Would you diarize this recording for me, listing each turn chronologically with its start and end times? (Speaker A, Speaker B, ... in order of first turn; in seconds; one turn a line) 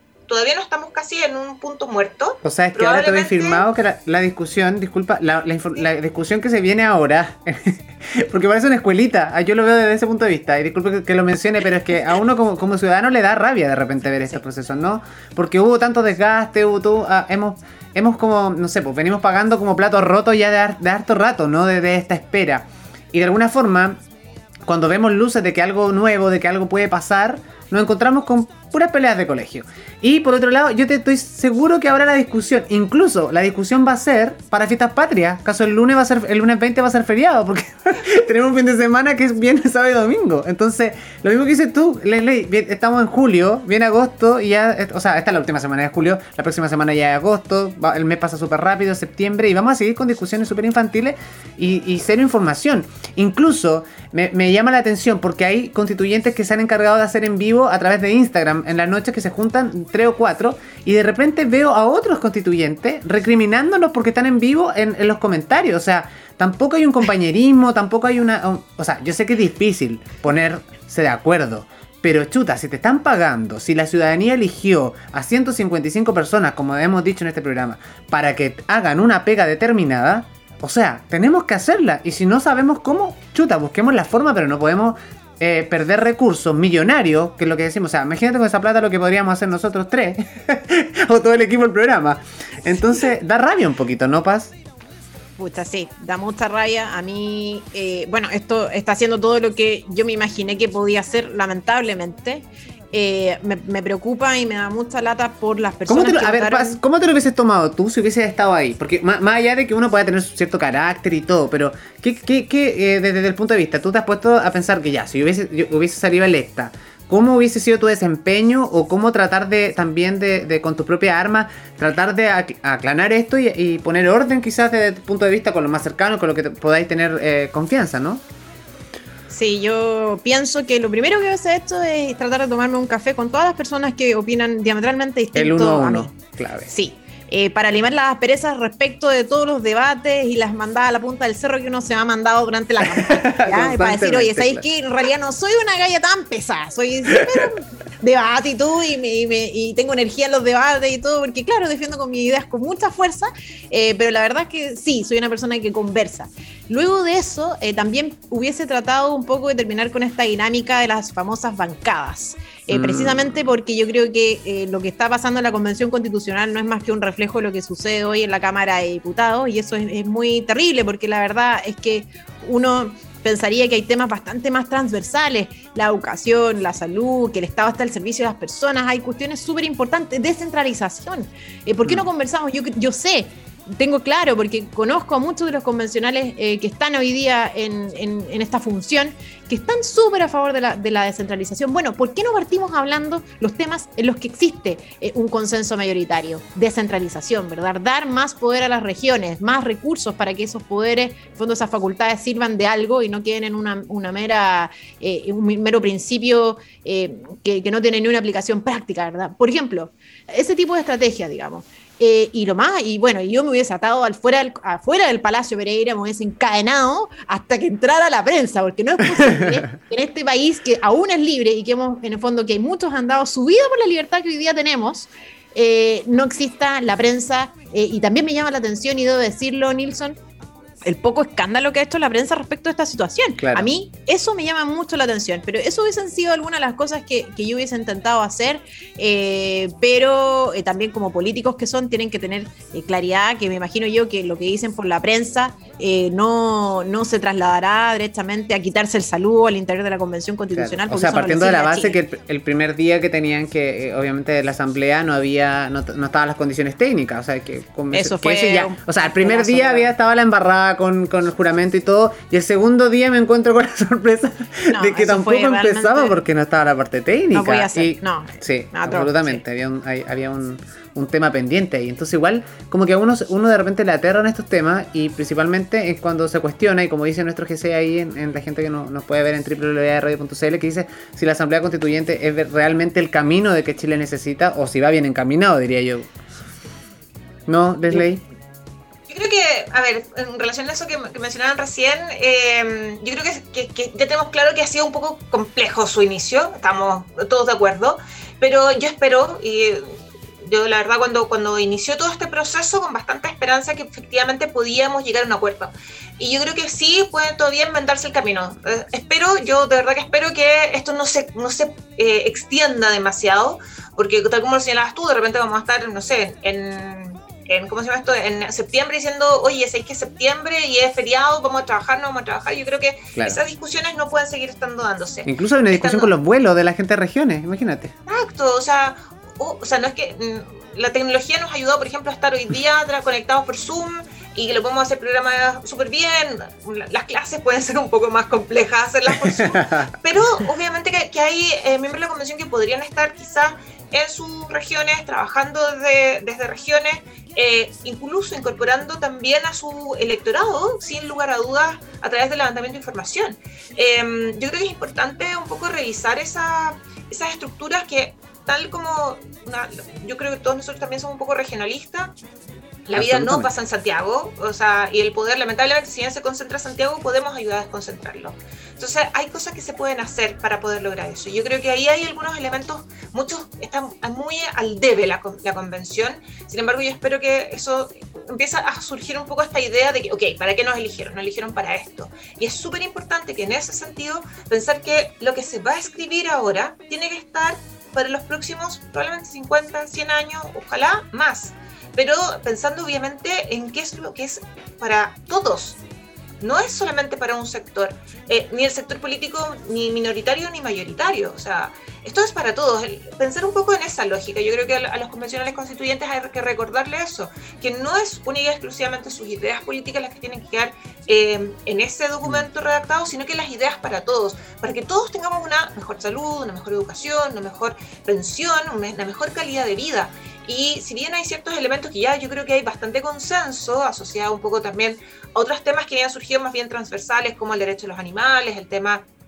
Speaker A: 0.3-3.6
Speaker B: 2.4-24.0
Speaker B: 24.6-94.5
Speaker C: 95.4-106.8
Speaker B: 105.9-128.2
Speaker C: 129.3-136.1
Speaker B: 135.3-136.7
Speaker C: 136.7-230.2
Speaker B: 142.9-144.6
Speaker B: 162.7-163.4
Speaker B: 219.2-219.6
Speaker C: 230.8-252.0
Speaker B: 233.4-233.7
Speaker B: 250.5-286.1
Speaker C: 257.9-259.9
Speaker C: 264.7-266.2
Speaker C: 267.3-269.4
Speaker B: 287.5-288.2
Speaker A: 289.1-299.9
Speaker A: 300.4-326.1
Speaker B: 325.2-327.9
Speaker A: 328.1-362.1
Speaker B: 339.1-339.9
Speaker A: 362.9-395.8
Speaker B: 362.9-363.5
Speaker A: 396.4-429.0